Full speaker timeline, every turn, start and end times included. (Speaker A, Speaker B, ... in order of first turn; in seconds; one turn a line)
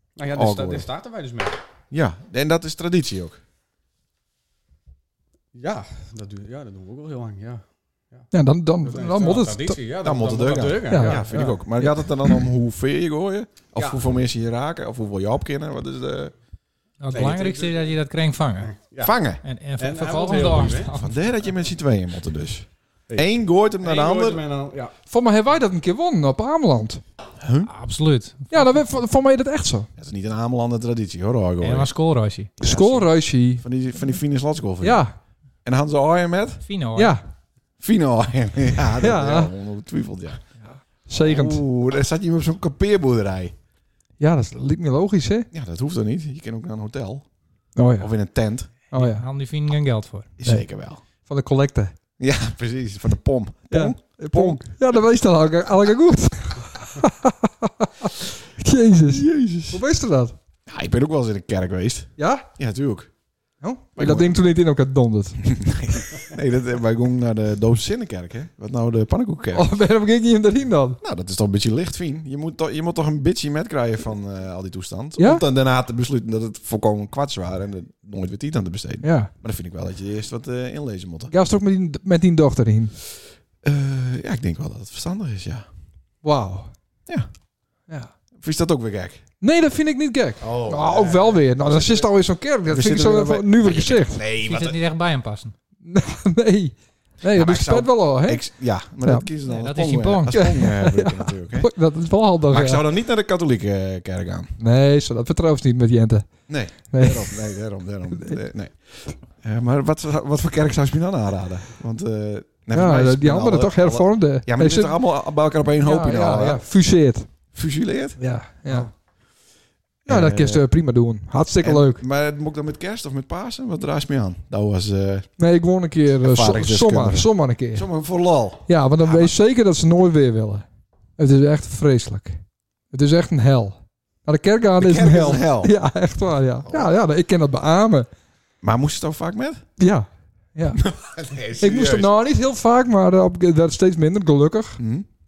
Speaker A: 0.2-1.6
Speaker B: 0.3-0.9
Speaker B: 1.9-3.4
Speaker A: 5.5-8.3
Speaker C: 8.3-9.8
Speaker A: 8.8-11.7
Speaker B: 10.0-16.3
Speaker C: 10.9-12.3
Speaker A: 13.8-14.1
Speaker D: 17.0-18.7
Speaker A: 17.1-17.9
Speaker A: 18.6-19.2
Speaker B: 19.0-19.4
Speaker D: 19.4-21.2
Speaker A: 19.8-20.9
Speaker B: 20.9-24.4
Speaker A: 23.8-24.9
Speaker C: 25.1-27.0
Speaker B: 27.4-27.7
Speaker D: 27.7-28.8
Speaker C: 28.5-29.9
Speaker B: 30.0-31.9
Speaker D: 31.6-32.5
Speaker B: 32.6-35.0
Speaker C: 32.6-33.6
Speaker C: 34.8-35.1
Speaker B: 35.6-36.6
Speaker D: 36.7-37.2
Speaker C: 37.0-37.2
Speaker B: 37.8-40.4
Speaker C: 39.0-39.5
Speaker C: 41.0-41.6
Speaker B: 41.2-43.5
Speaker C: 44.2-45.5
Speaker B: 45.5-47.3
Speaker C: 47.8-48.1
Speaker B: 48.0-48.7
Speaker C: 48.9-49.2
Speaker D: 48.9-50.3
Speaker B: 50.4-51.0
Speaker C: 51.2-51.9
Speaker B: 52.2-54.6
Speaker C: 53.7-60.4
Speaker B: 59.1-59.8
Speaker B: 60.7-63.1
Speaker C: 62.2-62.5
Speaker C: 63.6-65.6
Speaker B: 64.0-64.4
Speaker B: 65.4-69.8
Speaker C: 69.5-71.0
Speaker B: 71.0-81.3
Speaker C: 75.2-75.4
Speaker C: 79.0-79.3
Speaker C: 81.3-83.0
Speaker B: 83.6-85.7
Speaker C: 86.2-86.7
Speaker B: 88.4-89.2
Speaker C: 89.4-94.2
Speaker B: 90.4-92.1
Speaker B: 92.7-94.8
Speaker D: 94.4-95.5
Speaker C: 95.8-98.5
Speaker B: 97.2-101.7
Speaker C: 99.0-99.3
Speaker D: 99.5-100.4
Speaker C: 100.3-102.8
Speaker B: 102.5-104.5
Speaker C: 104.6-106.3
Speaker B: 106.5-116.6
Speaker C: 106.9-107.4
Speaker C: 112.7-115.0
Speaker C: 115.8-117.3
Speaker B: 117.5-118.9
Speaker C: 118.2-118.9
Speaker B: 120.1-120.7
Speaker C: 120.1-122.0
Speaker B: 121.6-125.3
Speaker C: 125.4-127.9
Speaker B: 126.2-129.3
Speaker C: 128.7-130.7
Speaker C: 131.2-132.4
Speaker C: 132.9-138.1
Speaker B: 134.8-135.7
Speaker B: 136.7-136.9
Speaker B: 138.6-139.7
Speaker C: 139.8-140.8
Speaker B: 140.8-142.1
Speaker C: 141.6-144.8
Speaker B: 144.8-145.1